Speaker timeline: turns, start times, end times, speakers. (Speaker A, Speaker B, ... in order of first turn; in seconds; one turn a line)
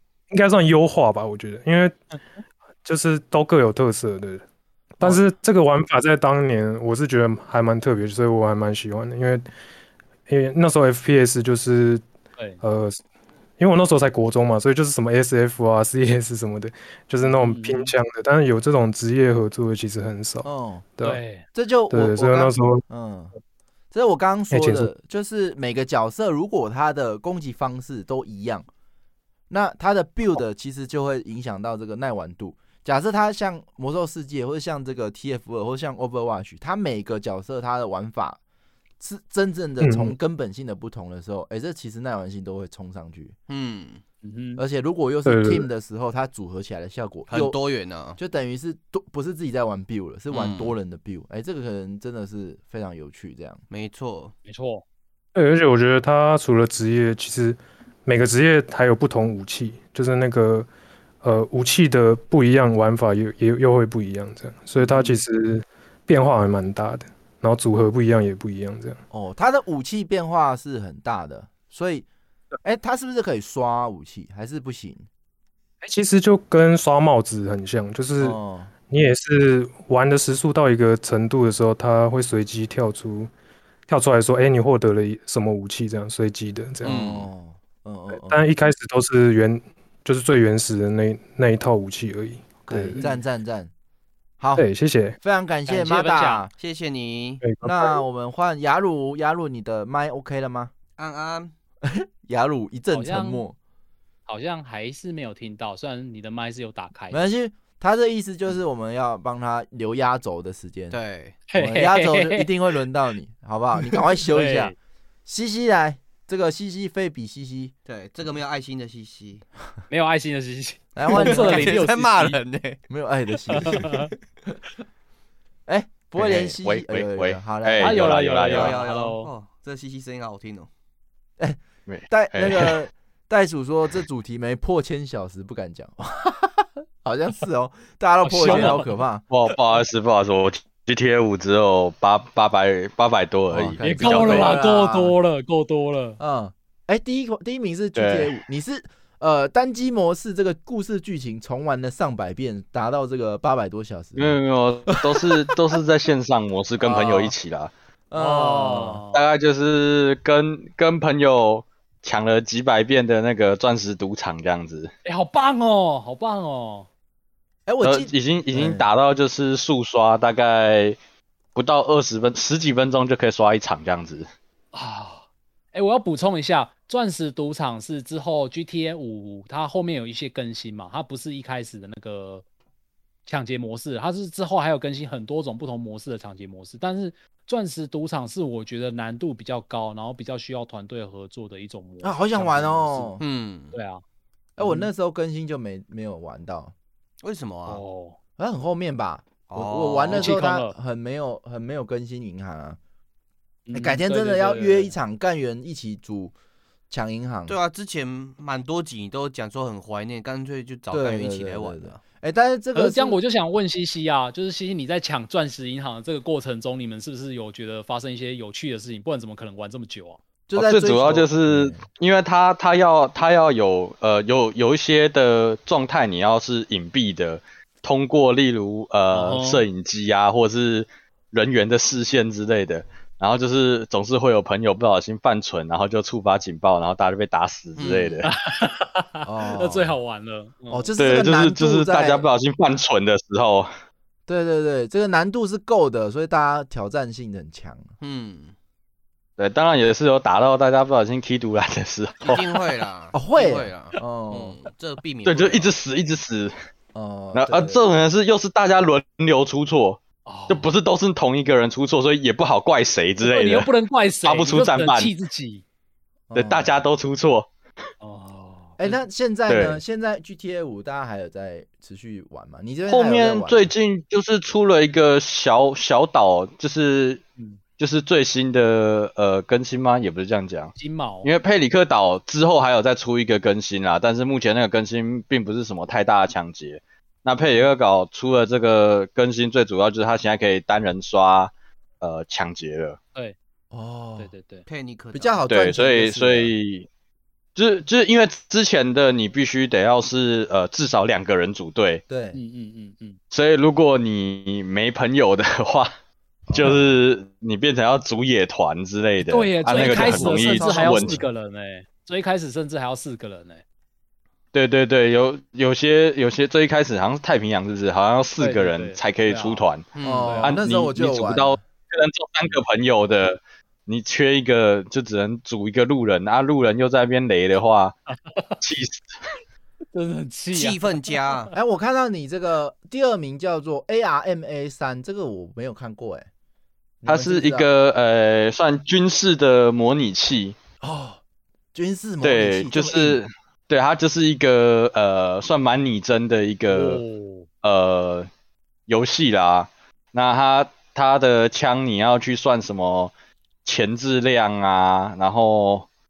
Speaker A: 0.3-1.9
Speaker A: 2.8-4.4
Speaker A: 5.0-9.4
Speaker A: 10.3-12.0
Speaker A: 12.6-13.0
Speaker A: 13.6-21.2
Speaker B: 17.2-17.9
Speaker C: 20.4-20.9
Speaker B: 21.0-21.4
Speaker C: 21.5-23.3
Speaker A: 21.9-22.8
Speaker C: 23.9-28.6
Speaker A: 24.5-24.9
Speaker C: 29.5-38.4
Speaker C: 39.0-43.3
Speaker A: 39.8-40.1
Speaker D: 43.5-44.0
Speaker B: 44.2-44.6
Speaker C: 44.6-47.6
Speaker A: 45.2-45.6
Speaker D: 47.3-48.2
Speaker C: 48.2-53.6
Speaker D: 50.3-50.8
Speaker D: 53.7-54.3
Speaker B: 54.5-54.8
Speaker A: 55.3-60.7
Speaker A: 61.2-69.0
Speaker B: 64.8-65.1
Speaker C: 69.1-72.1
Speaker C: 72.6-75.1
Speaker A: 75.8-78.4
Speaker C: 78.2-78.7
Speaker A: 78.9-83.3
Speaker A: 83.9-87.1
Speaker D: 86.8-87.3
Speaker C: 86.8-88.4
Speaker A: 88.1-93.0
Speaker C: 92.7-93.7
Speaker C: 94.4-94.6
Speaker A: 94.5-95.2
Speaker C: 95.2-96.5
Speaker B: 95.7-96.4
Speaker D: 96.6-97.4
Speaker A: 97.4-97.9
Speaker C: 97.6-100.7
Speaker D: 101.0-101.5
Speaker C: 101.8-103.5
Speaker B: 102.9-103.4
Speaker B: 104.3-107.2
Speaker C: 107.1-111.0
Speaker D: 110.9-111.4
Speaker B: 111.5-112.5
Speaker C: 111.6-114.7
Speaker B: 114.2-114.7
Speaker C: 115.2-117.7
Speaker D: 117.8-119.4
Speaker B: 119.9-122.4
Speaker C: 121.0-121.8
Speaker D: 121.1-122.8
Speaker C: 122.9-123.9
Speaker B: 123.5-124.1
Speaker D: 123.7-123.9
Speaker C: 125.7-128.1
Speaker E: 126.2-128.8
Speaker B: 127.8-129.3
Speaker D: 128.4-130.7
Speaker C: 131.4-139.2
Speaker E: 131.9-132.8
Speaker B: 138.2-138.9
Speaker E: 139.3-144.6
Speaker C: 143.5-145.1
Speaker B: 143.8-146.2
Speaker C: 146.2-154.3
Speaker E: 147.9-148.3
Speaker E: 154.2-157.7
Speaker C: 154.9-155.6
Speaker C: 156.8-157.3
Speaker C: 158.1-159.0
Speaker B: 158.1-159.2
Speaker E: 159.1-164.9
Speaker B: 165.0-166.9
Speaker C: 167.7-168.8
Speaker E: 167.8-171.0
Speaker E: 171.5-174.3
Speaker B: 174.7-182.4
Speaker B: 183.2-193.2
Speaker C: 192.0-193.2
Speaker D: 193.2-193.8
Speaker B: 193.7-194.0
Speaker C: 194.6-196.7
Speaker B: 194.6-194.9
Speaker D: 197.2-197.8
Speaker B: 197.7-198.2
Speaker C: 198.4-202.8
Speaker D: 199.5-200.4
Speaker B: 200.1-200.7
Speaker B: 203.7-204.9
Speaker C: 203.7-206.3
Speaker C: 206.9-207.6
Speaker D: 207.5-212.0
Speaker C: 210.9-213.2
Speaker B: 212.7-220.2
Speaker C: 220.5-221.8
Speaker E: 220.5-238.3
Speaker B: 229.1-229.6
Speaker D: 237.8-238.2
Speaker B: 238.2-240.9
Speaker C: 239.2-239.9
Speaker C: 240.7-242.2
Speaker E: 241.0-243.7
Speaker C: 244.3-247.9
Speaker D: 248.0-248.5
Speaker E: 249.4-252.5
Speaker D: 252.2-255.7
Speaker C: 253.1-254.6
Speaker E: 255.2-256.5
Speaker C: 256.9-257.8
Speaker E: 257.3-263.7
Speaker B: 260.2-260.7
Speaker B: 263.2-265.6
Speaker E: 264.2-265.1
Speaker C: 266.3-266.8
Speaker E: 266.4-267.5
Speaker B: 268.0-269.0
Speaker C: 268.8-273.7
Speaker E: 269.5-269.8
Speaker E: 272.9-277.2
Speaker E: 277.8-293.0
Speaker B: 280.8-281.3
Speaker C: 293.7-294.3
Speaker B: 294.2-294.6
Speaker D: 294.6-295.5
Speaker C: 295.1-296.5
Speaker E: 295.5-296.9
Speaker E: 297.6-302.0
Speaker C: 302.1-302.4
Speaker B: 302.3-303.2
Speaker E: 303.3-305.9
Speaker C: 306.5-306.9
Speaker E: 306.5-311.2
Speaker B: 309.2-313.6
Speaker C: 309.6-311.3
Speaker E: 314.5-319.9
Speaker B: 318.4-319.6
Speaker D: 319.9-320.4
Speaker C: 320.0-321.6
Speaker B: 320.2-320.6
Speaker E: 320.4-327.9
Speaker B: 328.2-328.6
Speaker E: 328.6-329.1
Speaker B: 329.9-331.4
Speaker D: 330.5-331.5
Speaker C: 331.5-336.3
Speaker C: 337.0-337.7
Speaker E: 337.0-340.6
Speaker C: 340.8-341.2
Speaker C: 341.7-343.2
Speaker E: 342.2-347.0
Speaker B: 346.7-347.5
Speaker E: 347.6-348.3
Speaker E: 348.9-353.1
Speaker E: 353.6-355.9